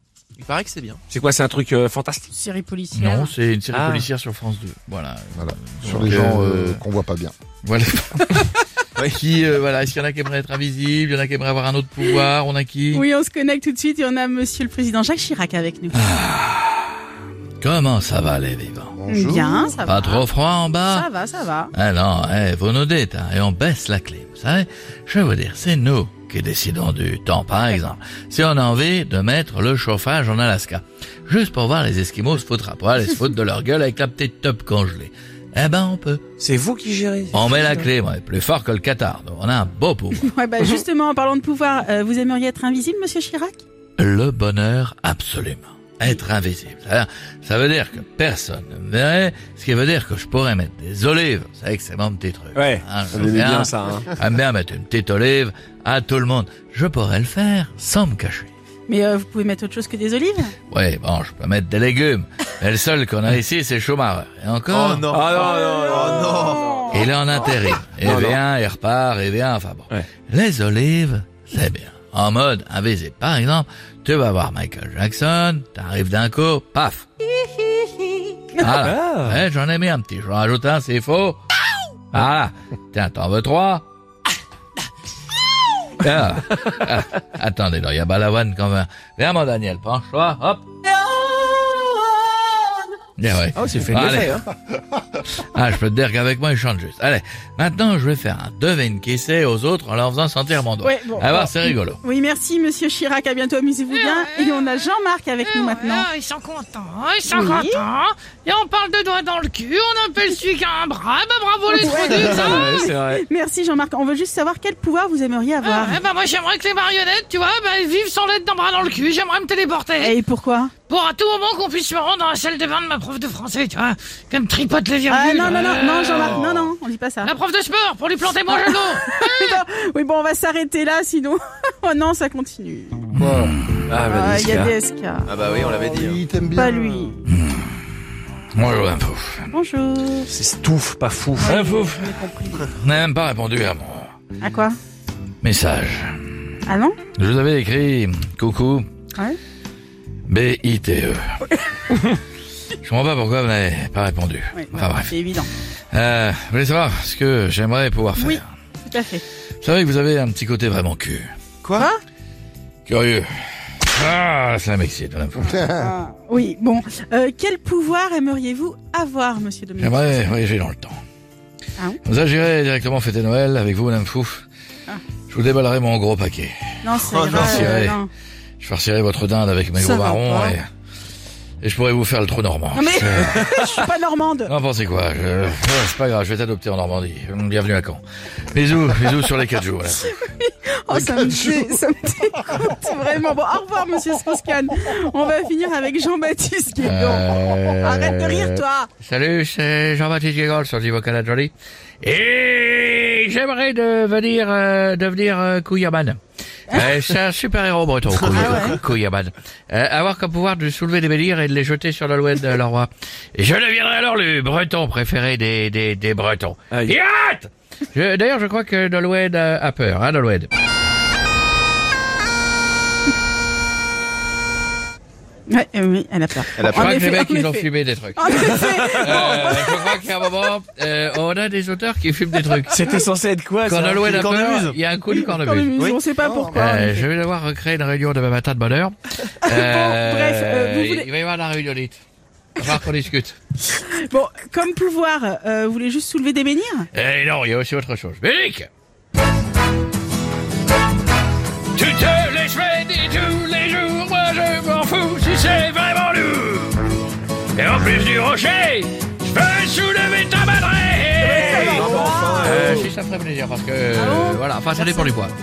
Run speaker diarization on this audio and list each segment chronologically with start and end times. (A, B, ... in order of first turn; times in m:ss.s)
0:00.4-0:01.0 A
0:01.1-0:02.3 B
0:02.3-0:03.3 C
0:03.0-0:06.8 D
0:03.7-0:04.0 A
0:05.4-0:07.4 E
0:07.6-0:08.4 D
0:09.0-0:13.0 D
0:12.9-0:16.2 C
0:15.9-0:17.0 D
0:17.6-0:18.9 D
0:19.0-0:19.8 E
0:19.1-0:21.7 C
0:19.8-0:21.1 D
0:21.7-0:36.2 D
0:36.4-0:37.8 B
0:37.3-0:40.3 D
0:40.2-0:43.6 C
0:44.0-0:58.5 D
0:52.6-0:54.1 B
0:58.9-1:00.5 C
1:00.7-1:05.2 D
1:04.7-1:06.8 A
1:05.1-1:06.4 B
1:05.3-1:07.1 C
1:06.9-1:17.1 D
1:08.0-1:08.4 B
1:18.6-1:21.4 D
1:18.8-1:19.4 B
1:22.1-1:23.8 D
1:26.0-1:30.6 D
1:33.2-1:34.4 D
1:33.6-1:34.4 B
1:35.4-1:42.0 D
1:40.8-1:46.1 C
1:43.9-1:44.9 F
1:45.4-1:52.8 F
1:47.3-1:47.9 C
1:51.7-1:56.0 C
1:52.4-1:53.2 B
1:55.6-2:00.2 F
2:00.0-2:00.7 C
2:00.9-2:06.4 F
2:05.1-2:07.3 C
2:06.1-2:06.7 A
2:07.2-2:09.6 F
2:08.5-2:13.1 C
2:13.2-2:13.6 E
2:13.2-2:13.8 D
2:13.9-2:14.7 B
2:14.0-2:15.3 C
2:15.3-2:16.2 A
2:15.7-2:17.0 E
2:16.5-2:17.2 C
2:17.3-2:17.8 D
2:18.5-2:19.5 D
2:19.5-2:20.3 C
2:20.3-2:21.6 B
2:21.4-2:22.7 C
2:21.4-2:24.1 D
2:24.4-2:24.8 C
2:25.4-2:26.5 D
2:26.7-2:27.0 C
2:27.2-2:28.9 D
2:30.3-2:31.2 D
2:32.8-2:35.1 D
2:34.5-2:35.5 C
2:35.9-2:38.5 D
2:38.2-2:39.2 C
2:39.6-2:41.3 D
2:41.6-2:41.9 A
2:41.7-2:42.0 C
2:42.9-2:45.6 D
2:45.5-2:45.9 E
2:45.8-2:50.2 C
2:49.8-2:51.0 D
2:52.0-2:54.4 D
2:55.3-2:58.0 D
2:56.8-2:58.1 C
2:57.0-2:57.7 A
2:58.6-3:00.7 D
2:59.8-3:00.6 C
3:01.6-3:03.7 D
3:02.8-3:04.5 C
3:04.5-3:10.2 D
3:10.0-3:18.9 C
3:10.9-3:11.8 E
3:16.8-3:26.2 D
3:26.7-3:40.5 D
3:28.3-3:28.8 C
3:45.5-3:50.0 C
3:46.6-3:46.9 A
3:46.6-3:52.9 D
3:52.7-3:54.1 B
3:53.6-3:55.8 D
3:53.9-3:54.8 A
3:55.1-3:57.1 C
3:56.2-3:56.7 E
3:56.5-4:02.0 D
3:59.4-4:01.1 C
4:02.6-4:03.4 D
4:03.7-4:06.9 C
4:06.9-4:08.7 D
4:11.7-4:16.9 D
4:17.6-4:25.3 D
4:21.2-4:22.6 C
4:21.3-4:22.8 A
4:24.0-4:25.1 C